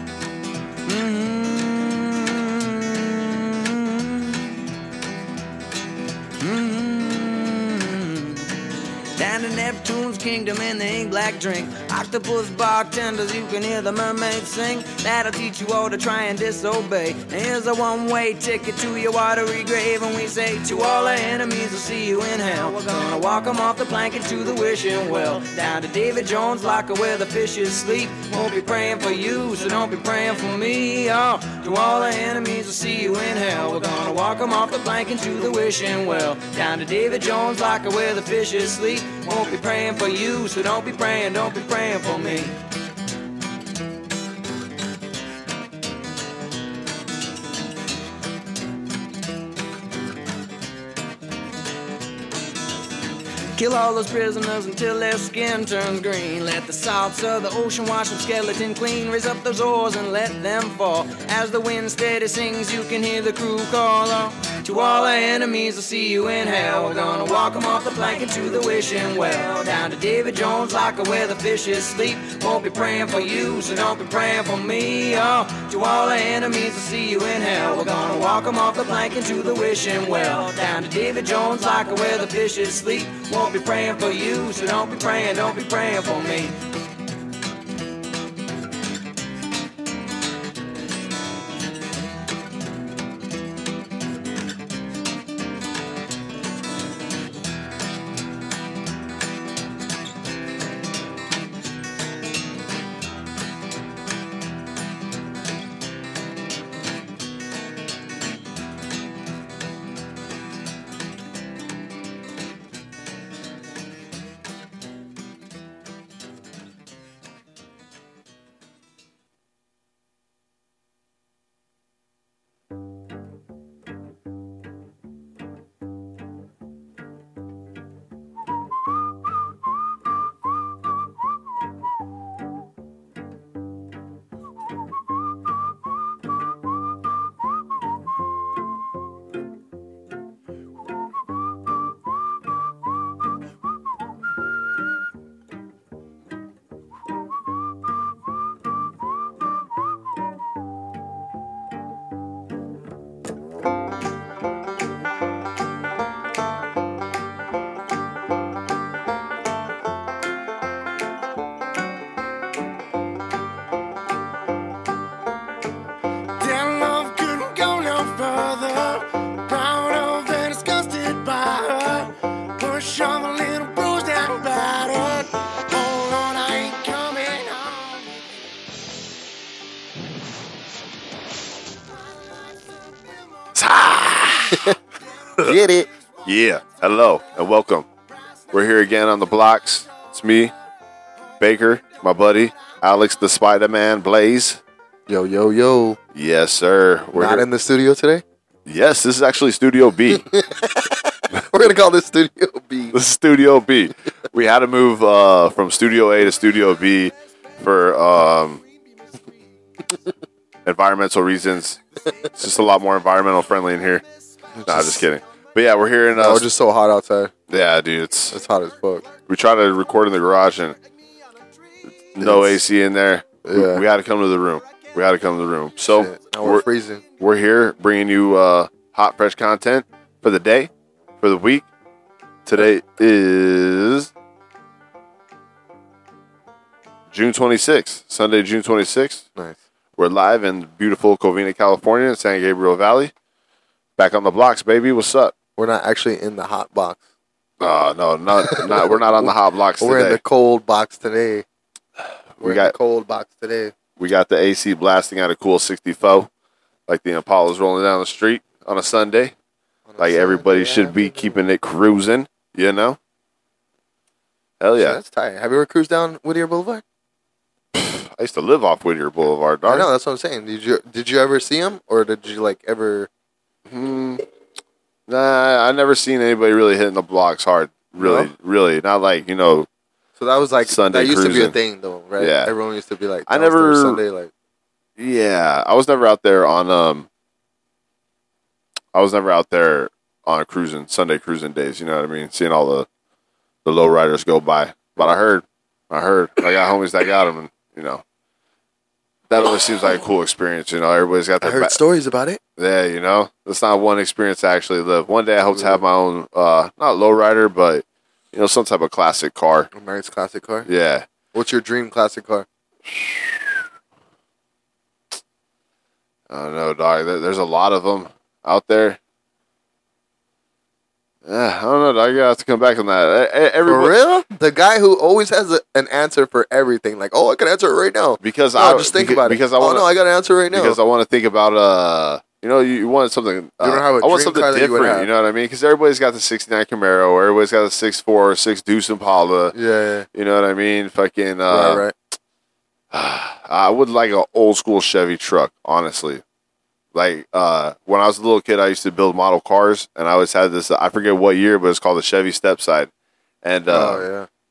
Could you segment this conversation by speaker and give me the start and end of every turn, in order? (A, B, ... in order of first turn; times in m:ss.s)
0:00.8-0:04.7 A
0:06.4-0:42.6 A
0:53.5-1:26.6 A
2:46.4-2:49.0 B
2:47.7-2:48.5 A
2:49.5-2:51.9 B
2:52.6-2:54.8 B
2:55.9-2:57.1 B
2:56.9-2:57.7 A
3:03.5-3:04.8 C
3:05.4-3:05.9 D
3:06.2-3:07.9 C
3:08.5-3:10.5 C
3:11.4-3:14.6 C
3:15.1-3:16.0 D
3:16.1-3:17.5 C
3:17.1-3:18.2 D
3:18.6-3:20.3 C
3:20.1-3:23.0 D
3:22.9-3:28.6 C
3:30.6-3:31.8 C
3:32.4-3:34.0 C
3:34.6-3:35.0 D
3:34.7-3:36.4 C
3:36.1-3:37.3 D
3:37.5-3:38.4 C
3:38.3-3:39.0 D
3:39.3-3:40.8 C
3:42.1-3:46.6 C
3:42.2-3:42.6 D
3:43.4-3:43.8 D
3:45.9-3:47.0 D
3:47.2-3:51.6 C
3:52.4-3:54.1 C
3:57.1-3:59.2 C
4:00.0-4:03.1 C
4:04.0-4:05.3 C
4:05.6-4:07.0 D
4:07.6-4:10.2 C
4:08.4-4:11.4 D
4:12.4-4:12.7 C
4:12.4-4:13.7 D
4:14.0-4:16.3 C
4:16.9-4:19.3 C
4:19.9-4:21.4 D
4:20.0-4:23.0 C
4:24.6-4:25.0 C
4:24.8-4:26.8 D
4:27.7-4:29.9 C
4:29.6-4:33.1 D
4:33.7-4:34.2 C
4:35.1-4:39.7 C
4:38.0-4:38.3 D
4:40.2-4:44.3 D
4:40.6-4:41.5 C
4:42.2-4:42.5 C
4:43.3-4:44.0 C
4:45.0-4:47.1 C
4:48.9-4:52.9 C
4:53.6-4:58.0 C
4:59.3-5:01.8 C
5:01.4-5:02.4 D
5:02.6-5:09.7 C
5:05.5-5:05.8 D
5:09.7-5:10.7 D
5:10.6-5:11.0 C
5:11.3-5:12.4 D
5:12.8-5:13.5 C
5:16.3-5:19.0 C
5:21.2-5:23.9 C
5:23.6-5:30.8 D
5:28.2-5:29.8 C
5:30.5-5:39.5 C
5:33.6-5:35.1 D
5:39.5-5:40.1 D
5:40.1-5:41.8 C
5:41.5-5:41.9 D
5:42.9-5:46.2 C
5:46.9-5:52.9 C
5:53.4-5:54.0 C
5:53.7-5:54.3 D